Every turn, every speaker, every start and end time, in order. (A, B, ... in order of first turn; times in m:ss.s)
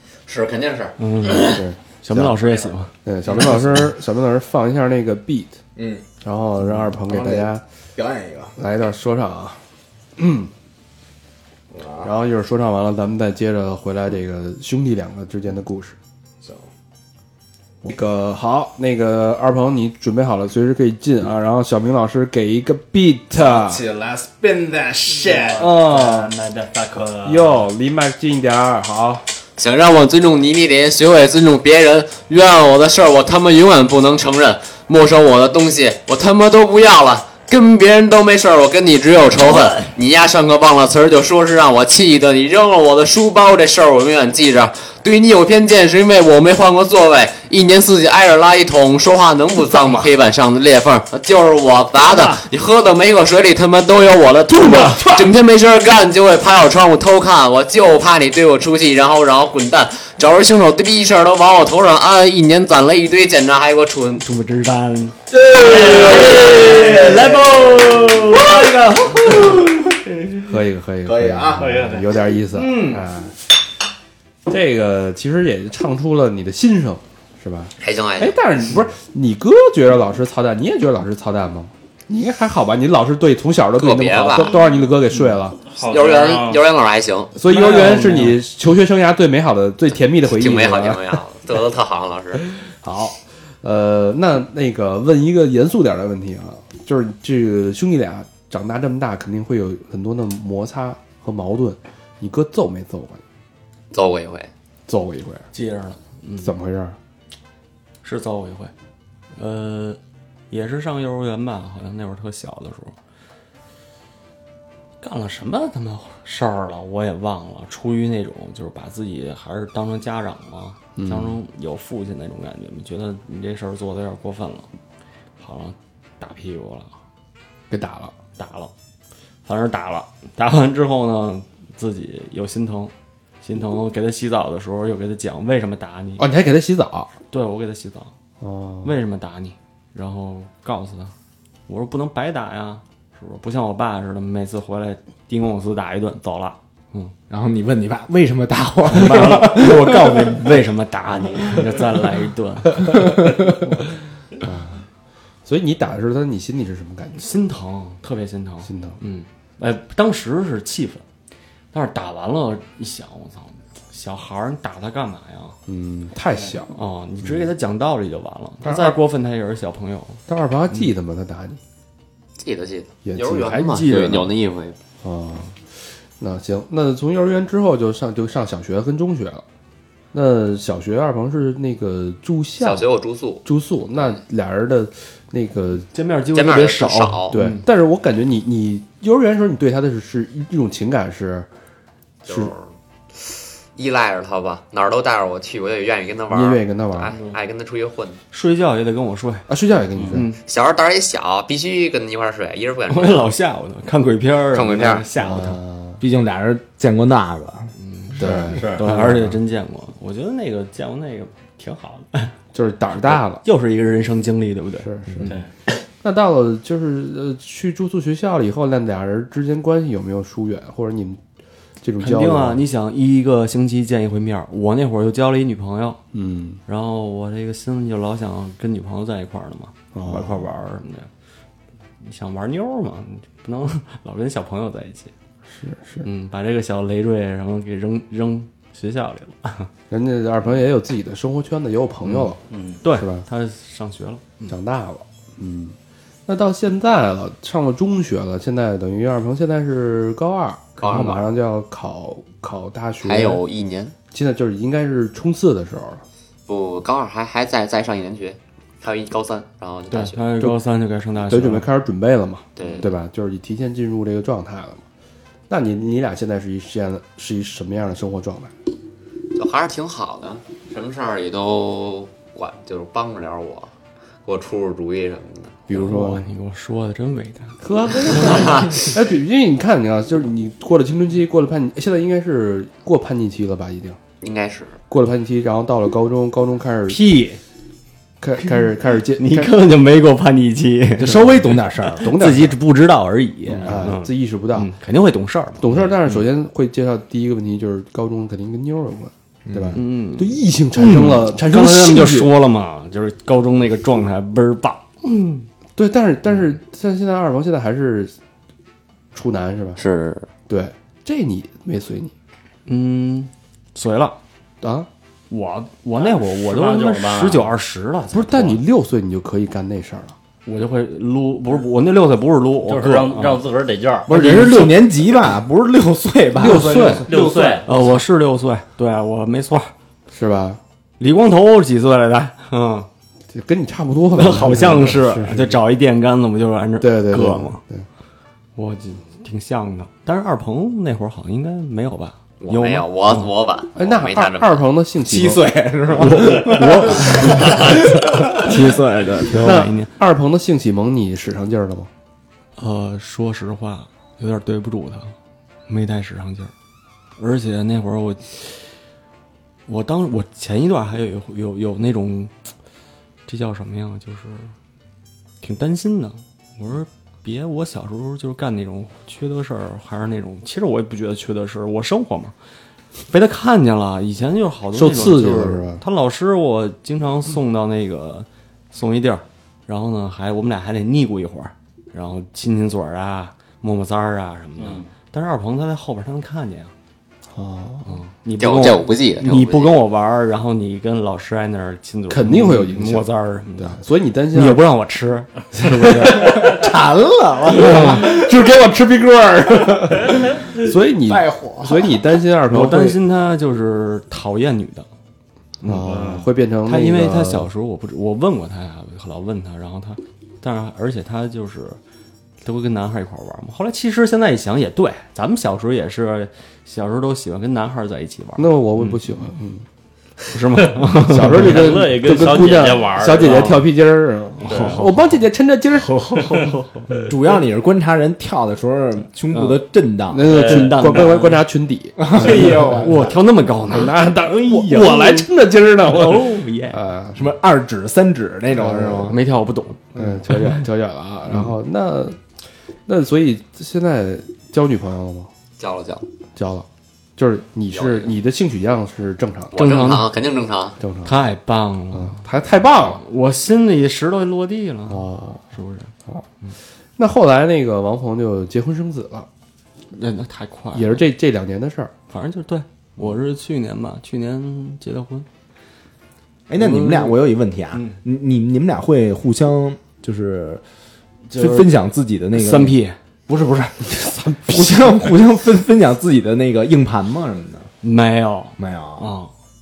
0:00.2-0:01.6 A
0:01.0-0:02.9 B
0:01.4-0:02.4 C
0:03.0-0:05.6 C
0:05.8-0:06.0 D
0:06.2-0:07.6 C
0:06.8-0:08.5 D
0:08.6-0:09.6 C
0:10.2-0:10.5 C
0:11.7-0:12.1 D
0:12.0-0:16.0 C
0:17.8-0:23.8 C
0:23.3-0:25.7 D
0:25.2-0:27.7 E
0:25.6-0:26.3 B
0:27.2-0:29.2 C
0:29.6-1:04.2 A
0:39.4-0:39.9 B
0:54.7-0:55.1 B
1:04.2-1:09.8 B
1:05.5-1:08.4 E
1:10.4-1:13.3 C
1:11.0-1:11.8 D
1:11.6-1:12.2 E
1:12.5-1:13.0 B
1:14.5-1:25.7 C
1:17.8-1:18.4 A
1:23.8-1:24.6 A
1:25.7-1:26.6 E
1:25.8-1:27.3 A
1:27.3-1:31.2 C
1:27.5-1:28.4 B
1:30.3-1:32.5 A
1:32.6-1:43.2 C
1:43.9-1:44.5 A
1:44.9-1:45.5 C
1:45.5-1:46.5 B
1:46.4-1:47.0 C
1:48.0-1:48.7 B
1:49.4-1:50.0 B
1:50.5-1:52.9 B
1:55.0-2:04.7 B
2:01.0-2:01.4 C
2:05.4-2:06.9 B
2:07.7-2:08.1 C
2:08.4-2:08.7 B
2:09.4-2:16.2 B
2:16.2-2:17.1 C
2:17.3-2:18.1 B
2:18.4-2:18.9 C
2:18.8-2:21.1 B
2:21.7-2:27.1 B
2:27.3-2:30.4 D
2:28.9-2:33.1 B
2:34.4-2:34.8 C
2:35.4-2:37.2 C
2:37.2-2:41.0 B
2:38.6-2:39.0 C
2:41.7-2:45.6 B
2:45.7-2:46.7 C
2:46.7-2:50.2 B
2:48.6-2:49.0 C
2:50.3-2:51.6 C
2:52.4-2:54.8 A
2:53.0-2:53.8 C
2:53.5-2:54.4 B
2:55.0-2:59.4 C
3:00.1-3:02.9 C
3:02.6-3:03.4 A
3:03.4-3:05.9 C
3:05.9-3:07.6 B
3:06.3-3:07.4 A
3:07.3-3:11.5 C
3:12.2-3:12.5 C
3:12.2-3:12.7 A
3:13.3-3:18.2 A
3:16.3-3:17.1 C
3:18.3-3:19.5 B
3:19.5-3:20.3 C
3:20.1-3:20.4 B
3:20.4-3:23.3 A
3:22.9-3:25.6 B
3:24.5-3:25.1 A
3:25.2-3:26.0 C
3:26.0-3:27.7 D
3:27.8-3:32.3 B
3:28.2-3:29.0 C
3:28.4-3:28.8 E
3:32.5-3:33.4 C
3:32.9-3:34.9 B
3:34.8-3:35.4 C
3:36.0-3:41.2 C
3:41.8-3:42.6 C
3:42.0-3:46.0 B
3:46.1-3:46.6 C
3:46.6-3:51.1 B
3:49.9-3:50.5 C
3:52.0-3:55.1 B
3:55.5-3:56.0 C
3:56.0-3:59.7 B
3:59.9-4:03.2 C
4:02.0-4:04.6 B
4:02.5-4:02.8 E
4:04.5-4:13.4 C
4:10.8-4:11.2 A
4:10.9-4:11.2 B
4:13.0-4:13.9 A
4:14.1-4:16.0 C
4:16.5-4:20.3 A
4:19.9-4:21.7 B
4:21.3-4:24.8 C
4:22.6-4:22.9 A
4:25.5-4:28.5 C
4:29.3-4:33.7 A
4:34.2-4:35.6 A
4:35.7-4:36.2 C
4:35.7-4:37.6 B
4:37.6-4:44.0 C
4:38.1-4:38.9 A
4:44.2-4:44.8 A
4:44.9-4:47.0 C
4:46.9-4:47.4 B
4:48.2-4:49.5 C
4:49.2-4:51.3 B
4:51.0-4:52.1 D
4:51.0-4:52.6 C
4:52.0-4:56.2 B
4:53.5-4:54.7 C
4:53.6-4:53.9 D
4:55.6-5:02.3 C
4:59.4-4:59.8 D
4:59.7-5:05.5 B
5:05.8-5:08.1 C
5:09.1-5:09.8 C
5:09.8-5:10.3 A
5:10.5-5:12.1 C
5:12.6-5:14.2 B
5:14.6-5:14.9 C
5:15.3-5:18.6 B
5:16.0-5:17.5 E
5:18.1-5:20.2 C
5:20.4-5:23.4 B
5:22.6-5:24.1 E
5:24.1-5:24.9 B
5:24.1-5:27.8 D
5:26.3-5:27.1 C
5:27.0-5:27.7 E
5:27.6-5:29.7 B
5:30.1-5:30.6 C
5:31.0-5:32.9 B
5:33.3-5:35.6 C
5:34.1-5:37.6 B
5:36.8-5:37.8 C
5:38.6-5:43.3 B
5:42.4-5:44.6 A
5:43.8-5:45.5 C
5:45.0-5:48.5 D
5:45.9-5:49.9 B
5:49.3-5:51.9 C
5:52.6-5:55.1 B
5:55.7-5:56.5 B
5:57.2-5:58.7 B
5:59.7-6:02.3 B
6:03.3-6:04.5 B
6:05.4-6:12.3 B
6:13.1-6:26.7 B
6:14.7-6:15.8 C
6:24.6-6:24.9 E
6:27.3-6:28.0 C
6:27.8-6:33.8 B
6:28.4-6:29.8 A
6:32.1-6:34.6 C
6:34.3-6:36.3 B
6:35.5-6:36.6 C
6:36.1-6:38.3 D
6:37.5-6:43.0 C
6:37.6-6:38.1 B
6:41.0-6:42.0 D
6:42.5-6:44.9 B
6:45.6-6:45.9 B
6:45.6-6:47.5 C
6:45.8-6:46.3 E
6:46.6-6:51.8 B
6:52.4-6:59.0 B
6:58.4-6:59.6 C
7:00.3-7:01.7 B
7:00.8-7:06.4 C
7:01.2-7:03.7 E
7:03.2-7:03.5 B
7:04.4-7:05.2 B
7:04.5-7:04.8 E
7:05.8-7:06.9 B
7:07.1-7:10.2 D
7:09.3-7:09.6 B
7:10.1-7:12.9 C
7:10.2-7:11.4 B
7:10.3-7:11.2 E
7:12.0-7:13.1 D
7:12.1-7:15.3 B
7:13.7-7:17.2 C
7:15.8-7:16.8 B
7:17.1-7:19.2 D
7:18.6-7:19.1 C
7:18.9-7:20.0 B
7:19.9-7:22.2 C
7:22.9-7:25.3 C
7:25.6-7:26.1 A
7:26.3-7:29.6 C
7:27.7-7:28.1 A
7:29.5-7:30.8 A
7:29.5-7:30.1 B
7:30.8-7:31.1 C
7:31.0-7:32.2 B
7:31.9-7:33.0 C
7:32.9-7:35.9 B
7:34.9-7:35.4 C
7:37.0-7:39.3 C
7:39.9-7:41.0 B
7:40.7-7:41.9 C
7:42.1-7:45.3 B
7:46.5-7:50.6 D
7:46.6-7:47.2 B
7:47.7-7:48.0 B
7:51.3-7:51.7 B
7:51.3-7:52.8 D
7:52.3-7:53.0 B
7:53.3-7:57.7 D
7:54.0-7:54.7 C
7:57.8-7:59.3 B
7:58.6-7:59.1 D